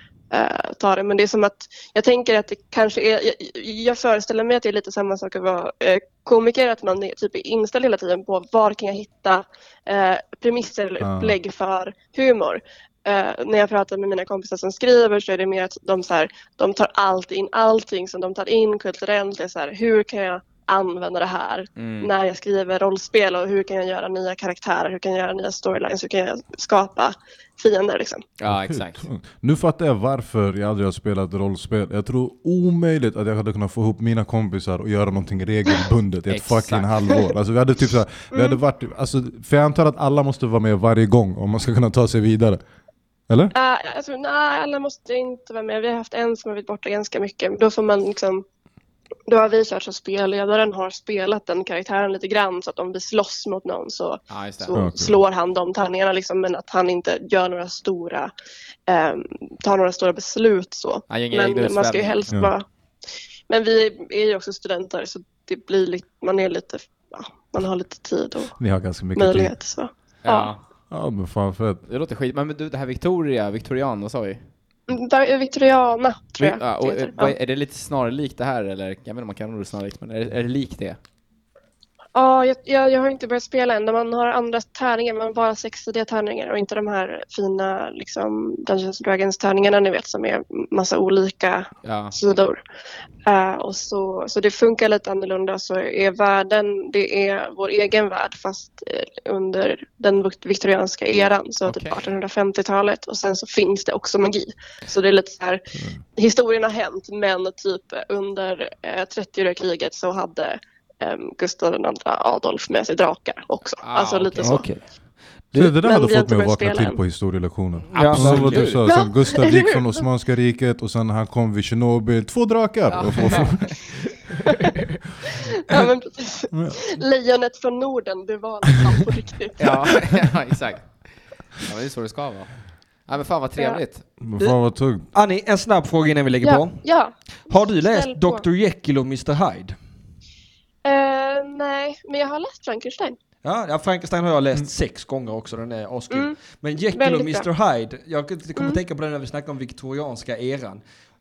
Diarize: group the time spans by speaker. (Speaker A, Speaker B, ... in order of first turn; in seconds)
Speaker A: 0.3-28.3, 38.3-38.6, 43.5-48.5, 49.3-58.3, 58.9-62.6, 63.5-68.6, 69.1-70.5, 74.9-77.3, 82.2-92.6, 93.3-105.6, 106.2-114.7, 115.8-117.0, 118.8-120.0, 124.5-124.8, 125.3-130.0, 136.4-138.4, 140.8-143.2, 146.1-146.4, 146.9-147.5
Speaker B: 11.0-11.3, 28.5-42.6, 54.7-55.2, 68.6-69.5, 70.9-71.8, 115.5-123.8, 126.5-126.8, 134.2-135.1
Speaker C: 21.8-22.1, 28.4-29.0, 36.3-37.2, 54.3-54.8, 61.1-62.4, 70.2-70.6, 71.9-74.4, 76.4-81.0, 91.8-92.1, 101.7-102.0, 113.8-114.6, 117.9-118.9, 122.9-123.7, 129.6-131.1, 131.6-134.1
Speaker D: 114.4-114.8, 117.9-118.7, 135.1-136.8, 137.5-139.8, 143.4-150.8